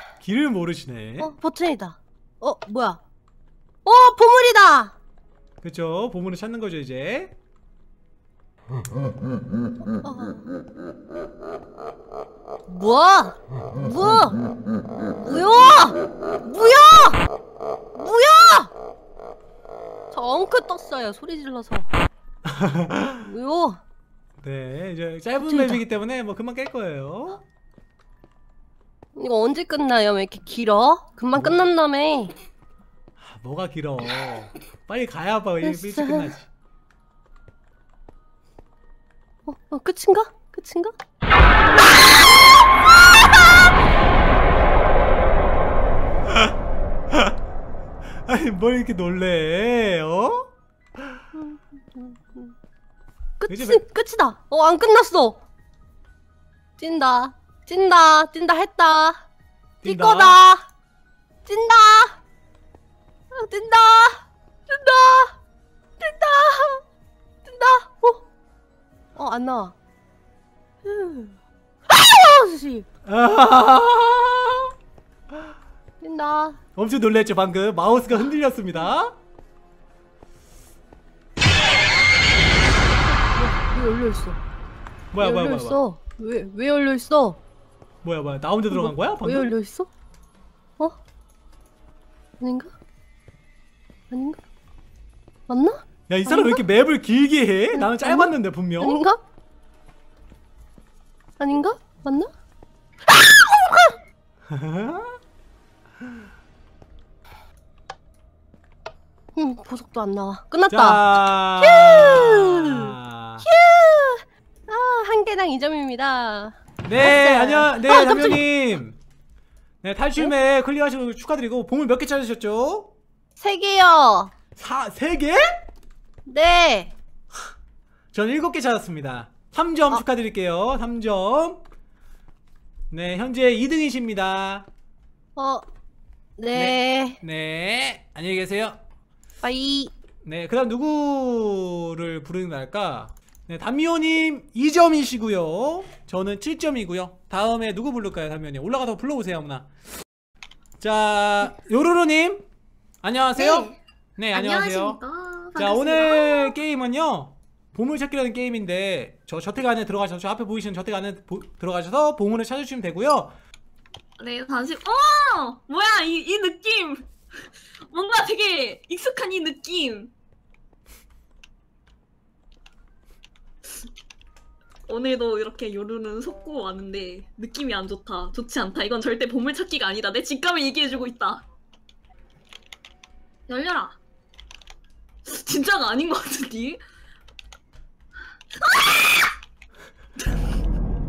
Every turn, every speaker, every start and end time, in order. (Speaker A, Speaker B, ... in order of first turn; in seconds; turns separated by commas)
Speaker A: 0.2-1.3, Speaker B: 1.2-3.0, Speaker B: 3.8-4.9, Speaker A: 5.6-7.3, Speaker B: 9.8-10.4, Speaker B: 12.7-14.4, Speaker B: 15.2-17.2, Speaker B: 17.9-18.7, Speaker B: 20.1-21.9, Speaker A: 22.4-23.2, Speaker B: 23.2-23.8, Speaker A: 24.4-27.4, Speaker B: 25.4-25.8, Speaker B: 29.1-32.3, Speaker A: 33.2-36.5, Speaker B: 35.6-36.3, Speaker B: 39.5-40.9, Speaker A: 48.2-50.5, Speaker B: 51.3-52.5, Speaker B: 53.4-55.4, Speaker A: 53.5-53.8, Speaker B: 56.8-59.3, Speaker A: 59.8-60.4, Speaker B: 59.8-60.7, Speaker B: 61.4-62.2, Speaker B: 63.3-65.3, Speaker B: 66.0-66.8, Speaker B: 67.4-68.2, Speaker B: 69.1-69.7, Speaker B: 70.8-71.3, Speaker B: 71.9-72.9, Speaker A: 73.0-74.7, Speaker B: 76.0-76.6, Speaker A: 76.8-79.2, Speaker B: 83.1-84.4, Speaker A: 85.1-85.8, Speaker B: 85.2-87.4, Speaker A: 88.0-89.5, Speaker B: 88.7-89.9, Speaker B: 92.4-92.7, Speaker B: 94.1-94.4, Speaker B: 95.5-96.6, Speaker A: 96.1-99.0, Speaker B: 97.7-99.2, Speaker B: 101.4-102.3, Speaker B: 103.1-104.0, Speaker A: 104.5-105.2, Speaker B: 109.3-118.4, Speaker A: 110.7-113.5, Speaker A: 116.8-119.0, Speaker A: 119.8-122.9, Speaker B: 123.4-124.3, Speaker A: 124.5-125.6, Speaker B: 126.2-126.9, Speaker A: 128.1-131.6, Speaker A: 132.9-134.7, Speaker B: 135.3-135.6, Speaker B: 136.4-137.2, Speaker A: 136.5-138.8, Speaker B: 139.4-139.9, Speaker A: 140.2-149.7, Speaker A: 150.8-152.4, Speaker A: 153.0-155.0, Speaker C: 153.4-153.8, Speaker C: 154.3-156.6, Speaker A: 155.6-163.3, Speaker C: 164.2-167.1, Speaker C: 167.9-170.1, Speaker C: 174.9-181.4, Speaker C: 183.5-184.0, Speaker C: 185.2-186.8, Speaker C: 188.5-189.3